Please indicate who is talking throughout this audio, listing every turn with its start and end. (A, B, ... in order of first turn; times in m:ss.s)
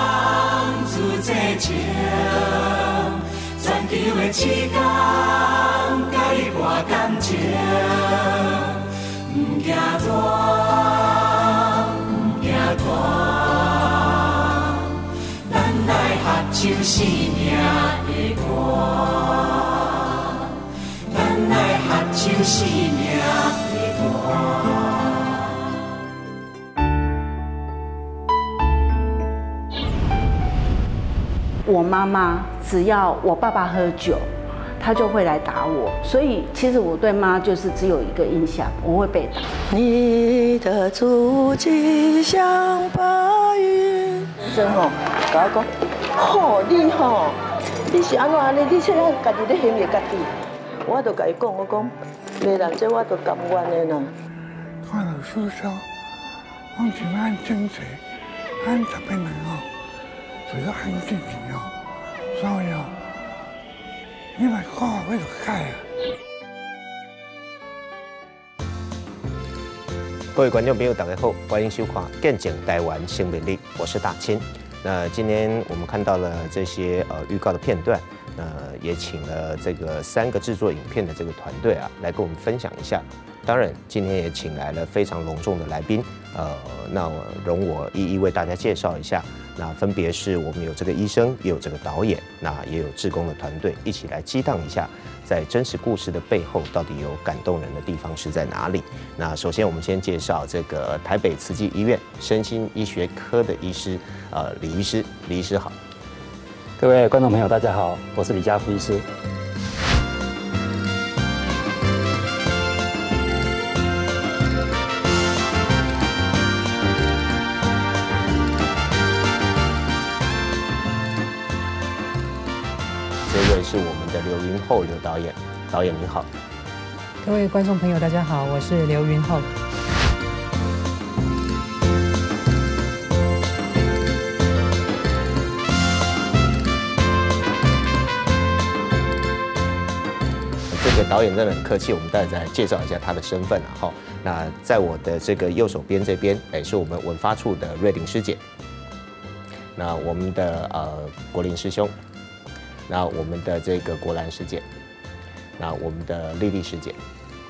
0:01.3-0:01.8 A
0:03.6-0:04.7 A
0:06.9-0:07.4 A
0:15.9-0:17.6 A
0:21.2-0:23.0 A
0:31.6-0:39.5 B
0:39.7-0:50.3 C
0:50.8-0:54.1 C
0:54.8-0:55.9 D
0:56.7-0:58.0 D
0:58.6-0:59.7 D
1:00.4-1:03.0 D
1:04.4-1:05.8 D
1:10.3-1:45.8 E
1:46.8-1:49.0 F
2:03.3-2:06.3 E
2:07.2-2:09.5 G
2:20.7-2:28.4 E
2:29.8-2:31.9 E
2:32.9-2:34.6 E
2:35.6-2:37.0 E